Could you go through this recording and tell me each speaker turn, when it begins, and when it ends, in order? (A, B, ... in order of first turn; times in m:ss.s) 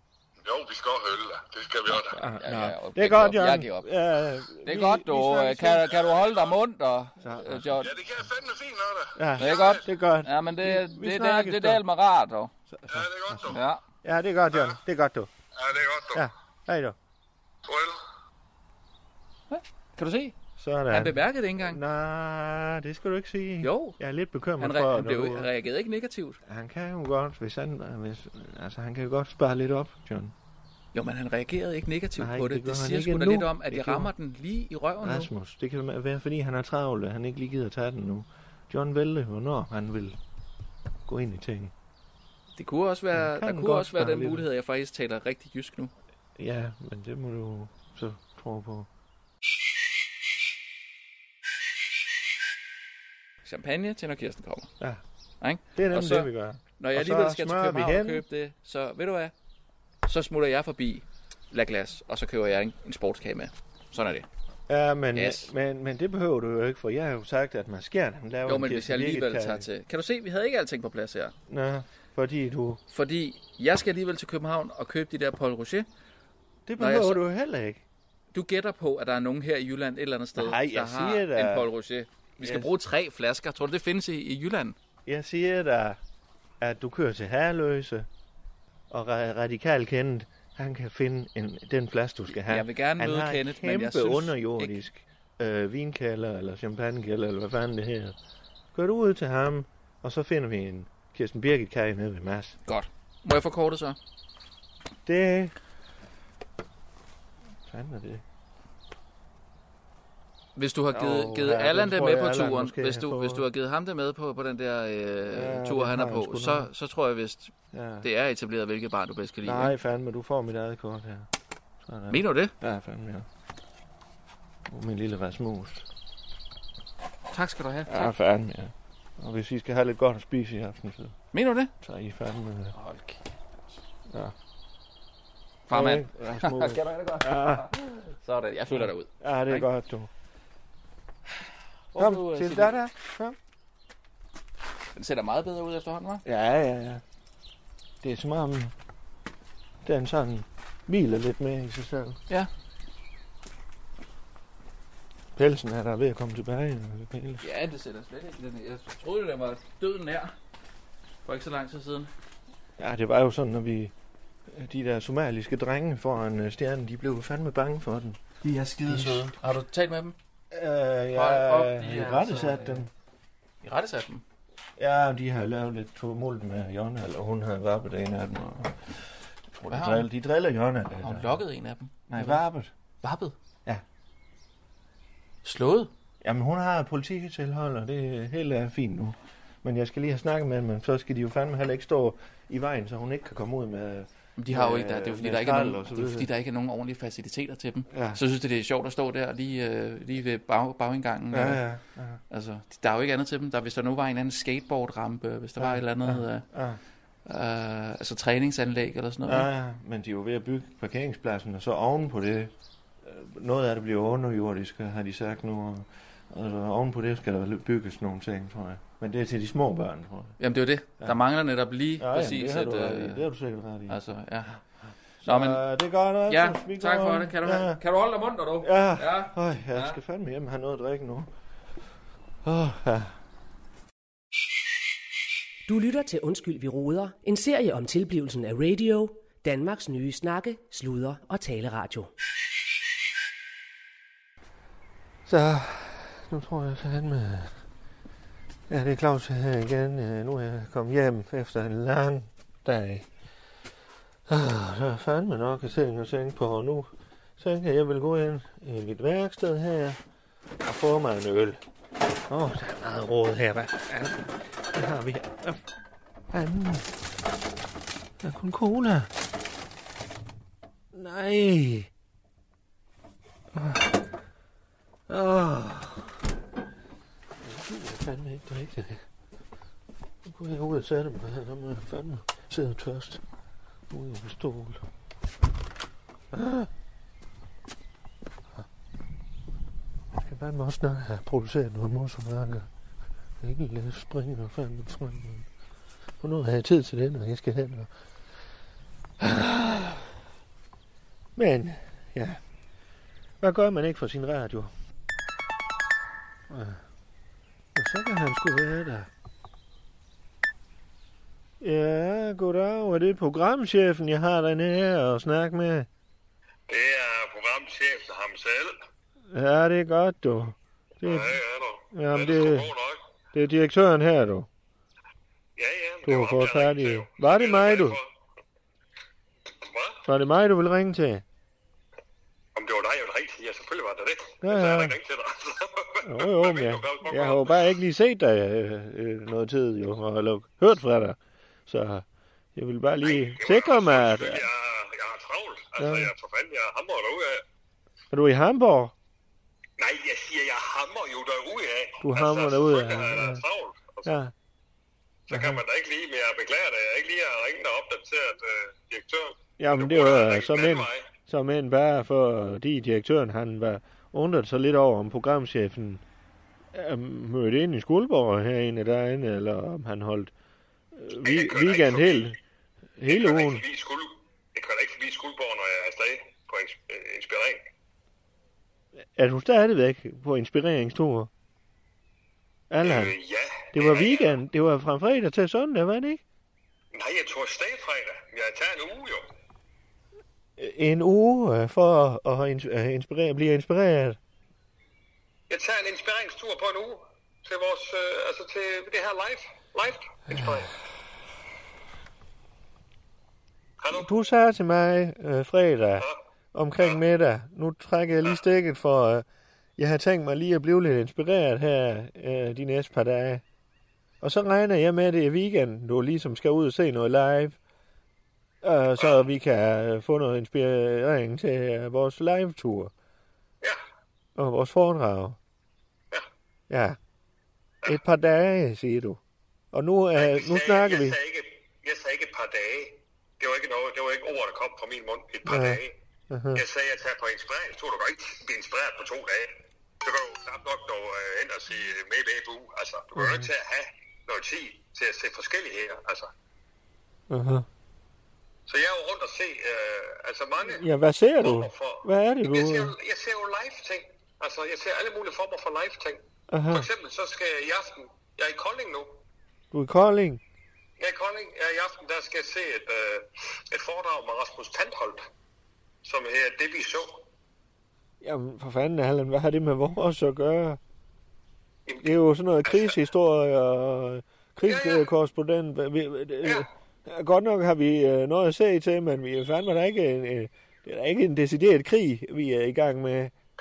0:00.4-0:02.2 A
0:02.1-0:05.9 B
0:02.4-0:03.9 C
0:04.6-0:07.9 C
0:05.9-0:06.6 A
0:07.2-0:07.9 B
0:07.8-0:09.9 A
0:09.2-0:11.8 B
0:09.4-0:12.5 C
0:12.7-0:15.3 B
0:12.9-0:13.6 A
0:13.5-0:13.8 C
0:14.5-0:14.8 A
0:15.6-0:16.3 A
0:16.1-0:17.0 B
0:17.7-0:18.0 A
0:19.5-0:20.4 C
0:20.6-0:25.5 B
0:20.9-0:21.8 C
0:23.6-0:24.0 C
0:24.6-0:26.4 C
0:26.5-0:30.3 B
0:30.9-0:35.3 C
0:32.2-0:34.1 B
0:35.0-0:40.2 B
0:41.1-0:41.7 B
0:42.6-0:45.9 C
0:43.1-0:44.5 B
0:46.4-0:48.9 B
0:53.4-0:54.7 C
0:55.4-0:59.3 C
0:55.8-0:58.2 B
1:00.0-1:04.3 C
1:04.7-1:09.7 B
1:05.2-1:05.5 C
1:08.5-1:11.3 C
1:11.5-1:12.8 B
1:12.9-1:15.9 C
1:16.7-1:17.8 B
1:16.8-1:17.2 C
1:18.3-1:24.8 C
1:20.4-1:21.7 B
1:22.4-1:22.7 B
1:25.1-1:26.0 B
1:26.6-1:28.1 B
1:28.9-1:38.2 B
1:32.4-1:34.8 C
1:38.7-1:42.6 B
1:42.7-1:44.0 C
1:45.1-1:45.5 B
1:47.7-1:48.2 B
1:50.6-1:59.7 C
1:50.9-1:53.5 B
1:55.3-1:56.7 B
1:57.7-1:58.1 B
1:59.4-2:01.3 B
2:01.8-2:03.3 B
2:02.1-2:02.5 C
2:04.7-2:05.9 B
2:07.3-2:08.1 C
2:07.9-2:11.2 B
2:11.3-2:11.7 C
2:11.8-2:12.8 B
2:12.8-2:13.8 C
2:14.1-2:14.4 B
2:15.7-2:19.7 C
2:15.7-2:17.8 B
2:18.7-2:20.1 B
2:21.9-2:22.8 C
2:22.0-2:23.4 B
2:25.0-2:26.2 C
2:26.2-2:27.0 B
2:28.0-2:28.7 B
2:29.8-2:32.2 B
2:35.4-2:37.5 B
2:37.4-2:40.3 C
2:41.2-2:42.1 C
2:42.8-2:43.9 B
2:44.5-2:49.4 B
2:48.4-2:50.2 C
2:50.5-2:52.9 B
2:51.2-2:52.8 C
2:53.6-2:54.2 C
2:54.8-2:59.0 B
2:59.6-3:00.1 C
2:59.6-3:01.4 B
3:01.0-3:02.4 C
3:02.1-3:02.7 B
3:03.0-3:03.4 C
3:05.4-3:05.9 C
3:06.2-3:16.3 B
3:14.4-3:21.7 C
3:17.9-3:18.2 B
3:21.3-3:22.2 B
3:22.3-3:26.5 C
3:25.6-3:26.8 B
3:27.3-3:29.5 C
3:29.3-3:40.4 B
3:40.4-3:43.3 C
3:42.0-3:44.0 B
3:43.9-3:44.6 C
3:45.2-3:45.6 C
3:45.2-3:47.8 B
3:46.3-3:50.0 C
3:48.6-3:51.3 B
3:52.4-3:53.2 B
3:55.7-4:02.1 D
4:05.3-4:07.5 B
4:08.7-4:13.1 B
4:14.3-4:20.0 B
4:20.6-4:21.6 B
4:22.3-4:25.6 B
4:26.3-4:26.9 B
4:28.2-4:29.1 B
4:30.9-4:31.9 B
4:33.5-4:34.0 B
4:35.1-4:36.1 B
4:37.4-4:39.0 B
4:40.2-4:43.2 B
4:43.9-4:44.8 B
4:46.3-4:46.7 B
4:50.2-4:52.7 B
4:53.4-4:55.5 B
4:56.2-4:57.9 B
4:59.2-5:00.1 B
5:01.4-5:02.4 B
5:03.4-5:04.7 B
5:06.5-5:06.8 B
5:07.8-5:09.1 B
5:11.6-5:15.9 B
5:16.7-5:18.8 E
5:19.3-5:21.4 B
5:21.0-5:23.0 E
5:21.9-5:22.7 B
5:23.3-5:24.5 B
5:25.6-5:28.1 E
5:26.0-5:28.0 B
5:29.6-5:30.0 E
5:30.1-5:31.2 B
5:32.6-5:37.7 E
5:34.4-5:35.0 B
5:36.0-5:42.0 B
5:42.6-5:44.5 B
5:43.0-5:47.4 E
5:45.8-5:46.1 B
5:48.1-5:48.9 B
5:49.8-5:54.1 E
5:52.0-5:53.4 B
5:54.0-5:54.3 B
5:55.3-6:01.1 E
5:55.3-5:55.6 B
5:59.6-6:06.0 B
6:06.7-6:10.3 B
6:11.0-6:12.4 B
6:11.2-6:12.3 E
6:13.0-6:13.6 B
6:13.1-6:17.6 E
6:19.2-6:21.3 B
6:22.7-6:23.2 B
6:22.8-6:24.4 E
6:23.7-6:26.2 B
6:26.9-6:29.3 E
6:30.6-6:34.2 B
6:35.5-6:40.7 E
6:43.8-6:44.1 E
6:43.9-6:49.2 B
6:49.8-6:53.4 B
6:54.2-6:57.6 B
6:58.6-7:02.9 B
7:04.4-7:05.4 B
7:06.7-7:07.0 B
7:07.8-7:09.2 B
7:09.7-7:11.2 B
7:10.2-7:16.0 E
7:15.5-7:16.6 B
7:16.5-7:26.3 E
7:23.2-7:23.5 B
7:27.3-7:27.7 B
7:28.7-7:30.8 E
7:30.7-7:32.9 B
7:31.4-7:39.2 E
7:36.5-7:36.9 B
7:39.7-7:40.4 B
7:41.0-7:45.3 E
7:46.0-7:47.2 E
7:48.2-7:50.8 B
7:52.0-8:03.3 B
7:52.6-7:53.0 E
7:54.6-7:55.1 E